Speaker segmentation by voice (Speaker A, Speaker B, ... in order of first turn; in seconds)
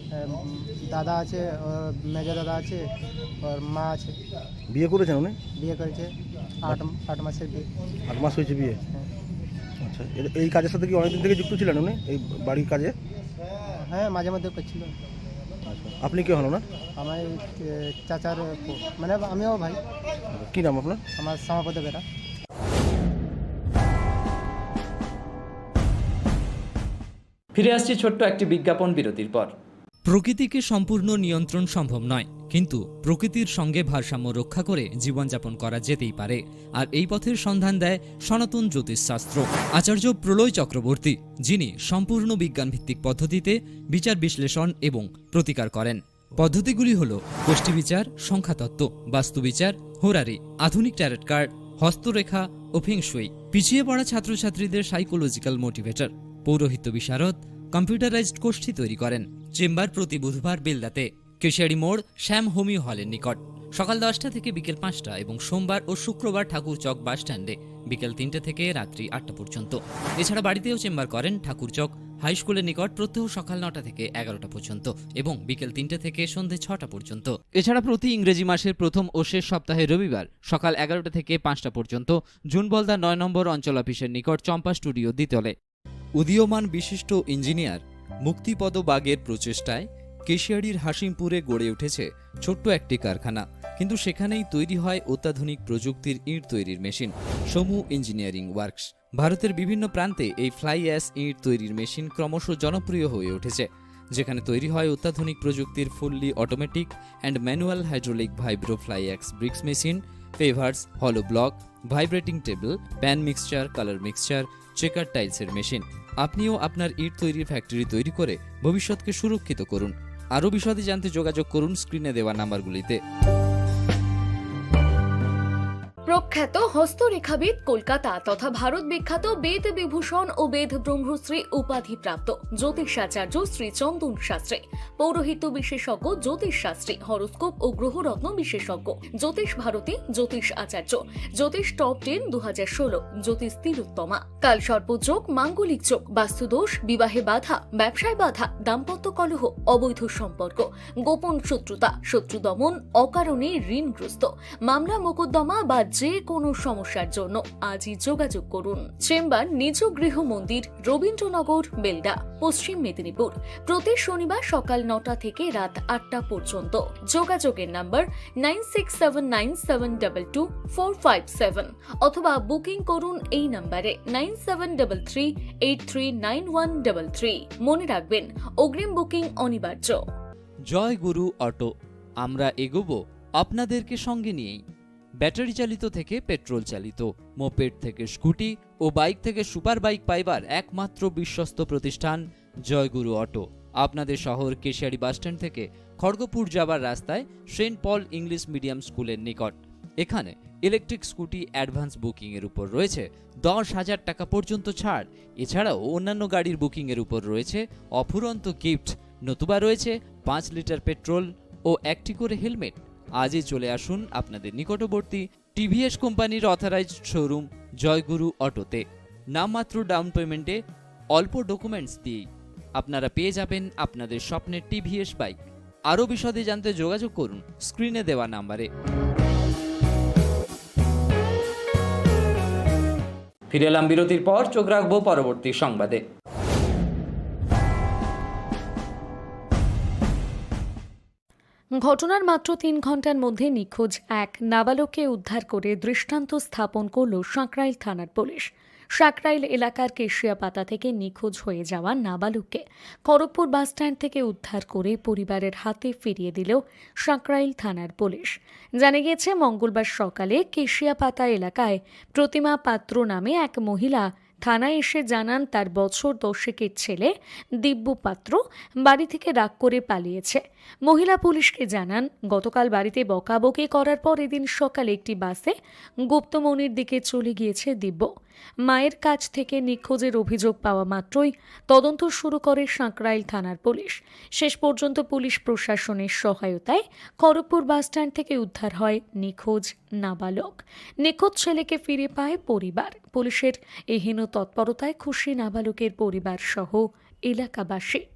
Speaker A: 0.2-2.8, 3.4-4.2, 5.6-6.1, 6.6-7.7, 13.7-15.0, 17.0-19.8, 21.2-22.0
Speaker B: 4.7-5.4, 8.1-8.8, 9.8-12.9, 15.7-16.6, 20.3-21.0
Speaker C: 27.6-29.5, 30.1-85.5, 86.2-123.0, 180.7-184.6, 185.2-220.6, 221.1-222.2, 222.8-225.4, 225.9-228.7, 233.5-236.0
Speaker D: 126.1-180.0, 241.8-275.5, 276.1-278.1, 278.6-298.1